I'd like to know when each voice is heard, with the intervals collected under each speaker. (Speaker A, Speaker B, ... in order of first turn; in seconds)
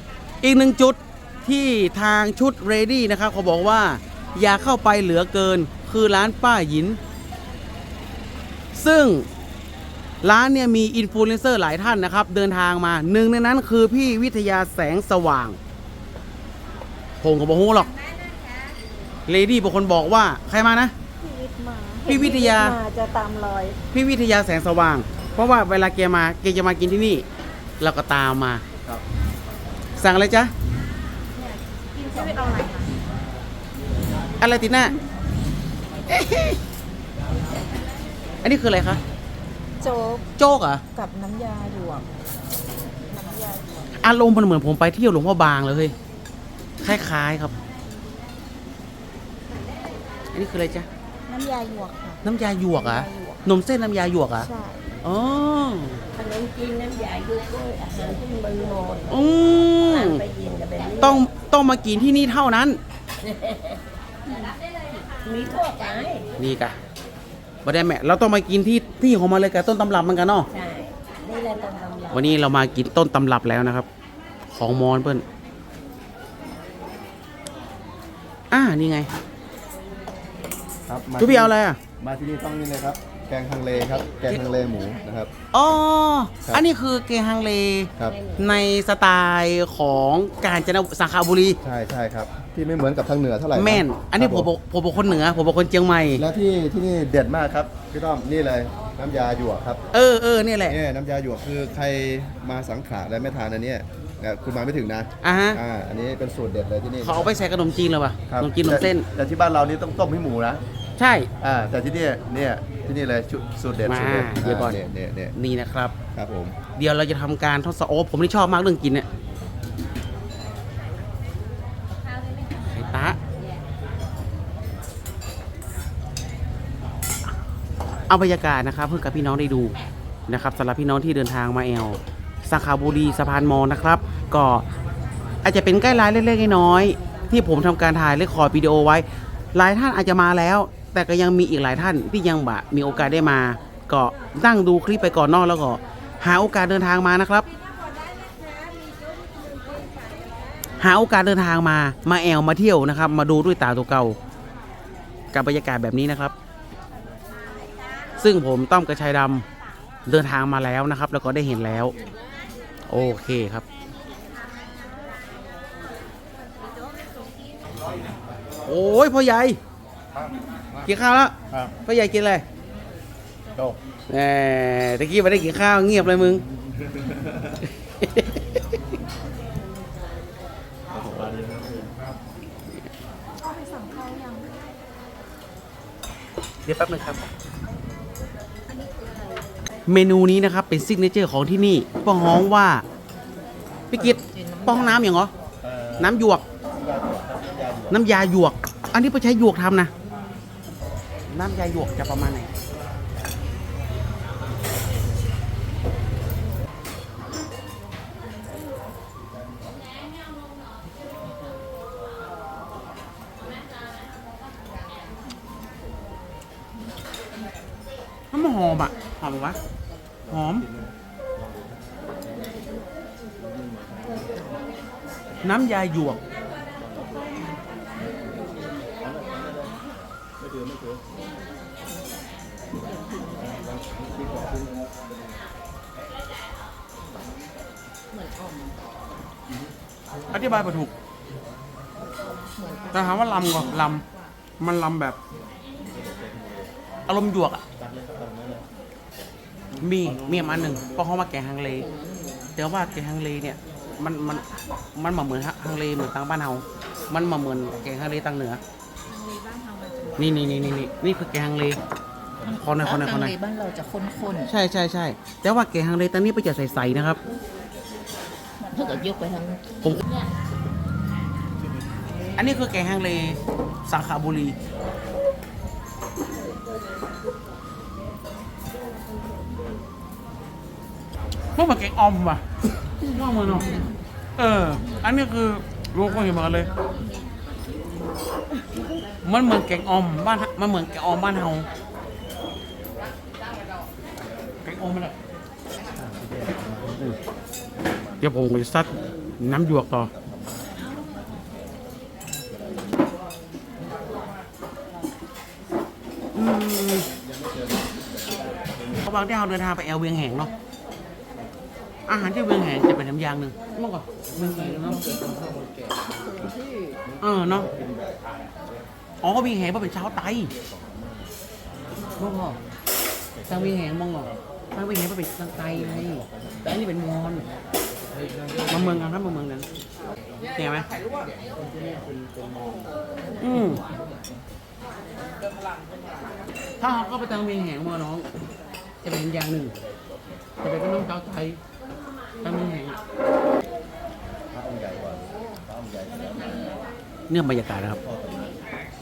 Speaker A: 0.4-7.0, 8.7-9.3, 10.2-15.6, 17.2-17.9, 19.3-20.9, 22.1-22.8, 23.9-27.2, 27.8-28.6, 30.0-30.5, 34.4-35.0, 36.1-36.6, 38.4-39.0, 40.4-40.8, 44.0-45.9, 46.8-47.5, 50.3-50.9, 52.2-54.5, 55.0-56.0, 59.1-60.2, 61.0-62.8, 66.4-66.8, 67.6-70.5, 72.1-73.9, 74.5-75.2, 78.5-79.1, 81.2-81.8, 85.5-91.6, 93.5-96.2, 99.9-100.8, 105.2-105.6, 107.0-109.1, 111.0-111.3, 113.8-114.8, 115.3-115.9, 116.8-119.0, 122.6-123.2, 128.1-129.8, 130.3-134.7, 135.4-147.5, 150.8-154.2, 155.3-156.3, 158.2-159.4, 160.1-161.9, 162.9-163.6, 168.7-169.6, 170.8-172.4, 174.1-176.4, 177.8-178.8, 186.7-187.2, 189.9-192.8, 193.9-195.3, 196.0-196.4, 197.9-199.9, 201.3-202.5, 218.3-219.6, 220.3-220.7, 225.4-226.2, 240.3-240.9, 242.9-244.0, 244.6-245.2, 247.1-247.6, 249.8-251.9, 252.6-254.4, 254.9-258.6, 260.2-261.8, 262.4-263.4, 264.4-267.2, 272.3-274.5, 281.5-282.4, 283.0-286.7, 289.2-291.7, 294.6-295.1, 298.2-300.1, 306.3-307.1, 309.0-310.5, 312.1-315.0, 317.2-317.7, 319.2-320.5, 322.2-322.6, 323.5-327.4, 328.7-329.7, 330.5-330.9, 333.4-333.8, 336.8-338.3, 339.0-339.7, 340.6-341.6, 342.4-343.0, 347.3-348.0
Speaker B: 21.2-23.8, 31.4-32.9, 39.8-40.2, 40.9-42.1, 43.1-43.9, 51.3-52.2, 52.7-53.4, 54.4-54.9, 183.4-184.5
Speaker C: 56.1-61.2, 63.2-64.5, 65.2-66.3, 70.5-72.3, 88.0-88.5, 194.2-194.8, 238.1-238.7, 242.6-242.9, 262.6-264.5, 268.6-269.6
Speaker D: 80.9-85.3, 91.6-94.5, 96.2-99.8, 100.7-107.3, 108.3-110.6, 111.4-115.3, 116.1-116.6, 180.9-181.9, 195.6-196.1, 196.7-198.0, 229.3-229.9, 245.9-246.5, 247.8-248.6, 295.9-297.1, 300.3-301.0, 344.5-346.6, 348.0-348.6